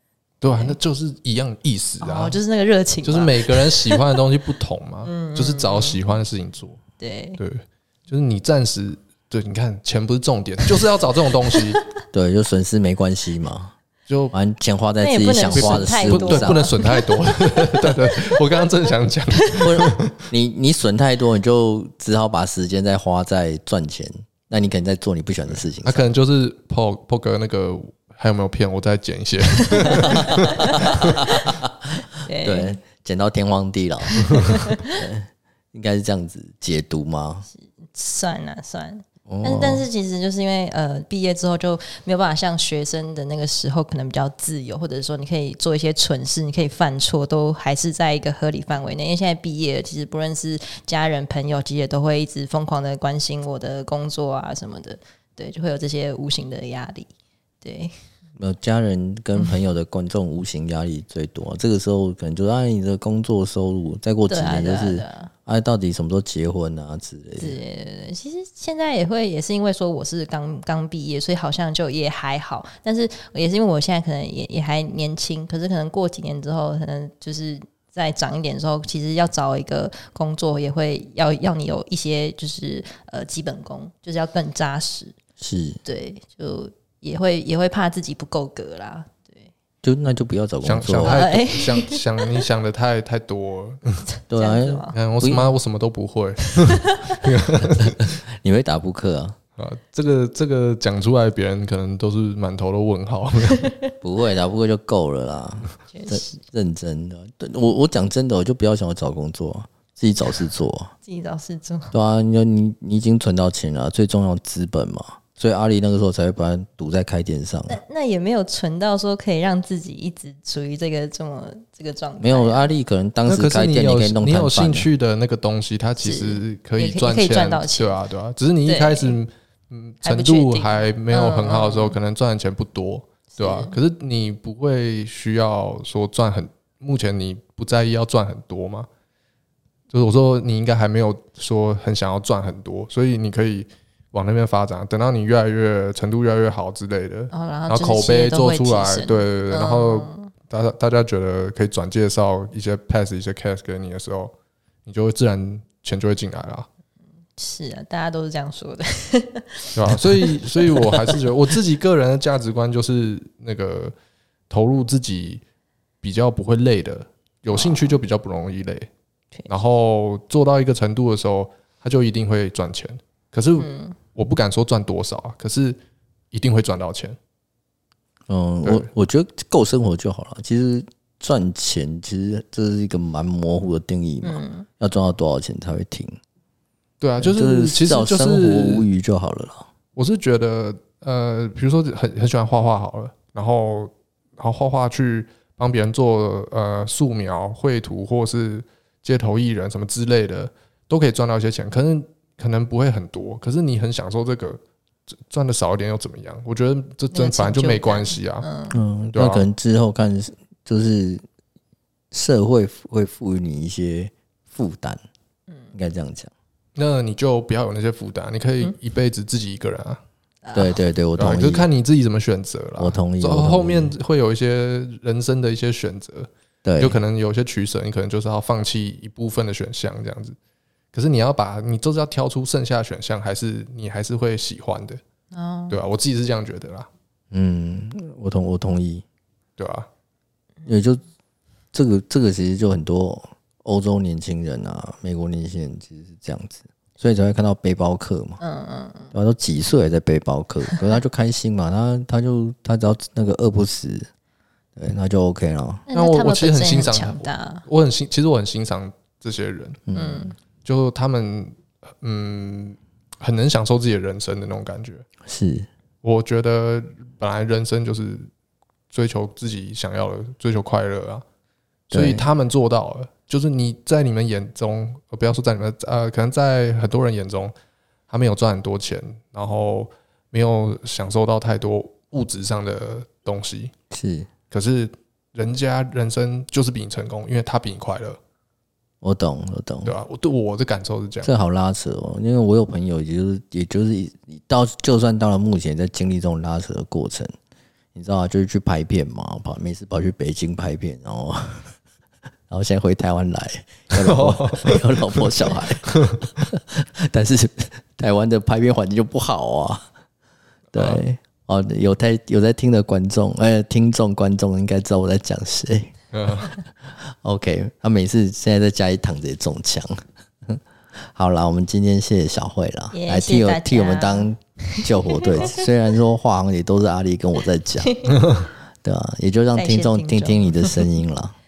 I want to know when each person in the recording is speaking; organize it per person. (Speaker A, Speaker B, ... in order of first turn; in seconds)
Speaker A: 0.4-2.4, 3.0-6.8, 7.4-11.8, 14.1-14.3, 15.5-20.1, 25.5-31.2, 90.6-94.0, 94.9-98.2, 99.6-103.7, 123.3-138.9, 139.9-154.3, 154.9-156.7, 159.8-163.9, 164.5-165.4, 166.0-168.9, 169.5-175.8, 176.3-177.2, 187.0-188.9, 190.0-204.6, 205.1-208.5, 209.2-209.4, 216.8-220.0, 221.2-226.3, 226.8-230.4, 230.9-235.0, 235.7-236.9, 239.6-239.9, 255.9-259.8, 260.6-265.1, 266.0-268.3, 268.9-271.2, 271.9-277.5, 278.1-283.7, 284.5-288.2, 289.9-291.3, 303.9-306.2, 310.7-311.0, 316.1-316.6, 328.1-328.4
Speaker B: 0.5-0.8, 2.0-4.2, 5.0-6.0, 7.0-7.4, 11.5-11.8, 15.0-17.9, 29.7-31.4, 32.2-32.8, 34.1-35.0, 37.5-57.1, 57.6-57.9, 64.3-65.3, 67.4-85.1, 85.8-89.5, 91.0-92.4, 94.0-95.0, 96.5-97.2, 105.9-106.4, 111.0-112.0, 117.7-122.7, 126.0-128.0, 128.7-129.2, 130.0-132.0, 133.3-133.8, 147.3-150.3, 157.4-161.5, 167.5-168.0, 173.6-174.0, 184.2-184.7, 207.1-208.8, 220.5-220.8, 235.3-235.8, 248.4-249.1, 255.9-257.6, 259.9-260.3, 322.9-325.6, 327.8-328.2, 329.6-330.9
Speaker C: 12.1-13.7, 14.3-16.7, 19.6-26.1, 30.0-37.5, 39.3-39.9, 58.4-67.6, 85.4-85.8, 89.8-91.2, 94.3-95.5, 97.7-99.4, 104.0-110.9, 111.9-117.8, 122.2-124.9, 178.3-186.2, 187.2-189.7, 208.7-211.2, 212.1-215.0, 215.7-216.3, 220.5-221.7, 222.8-223.9, 226.7-227.0, 237.3-239.1, 240.7-241.0, 241.7-248.4, 249.1-254.1, 254.8-255.9, 259.9-260.3, 265.2-265.7, 271.9-272.3, 283.9-284.3, 289.0-290.0, 291.2-297.3, 297.9-301.7, 302.5-309.9, 310.7-315.9, 316.8-328.1, 328.8-331.4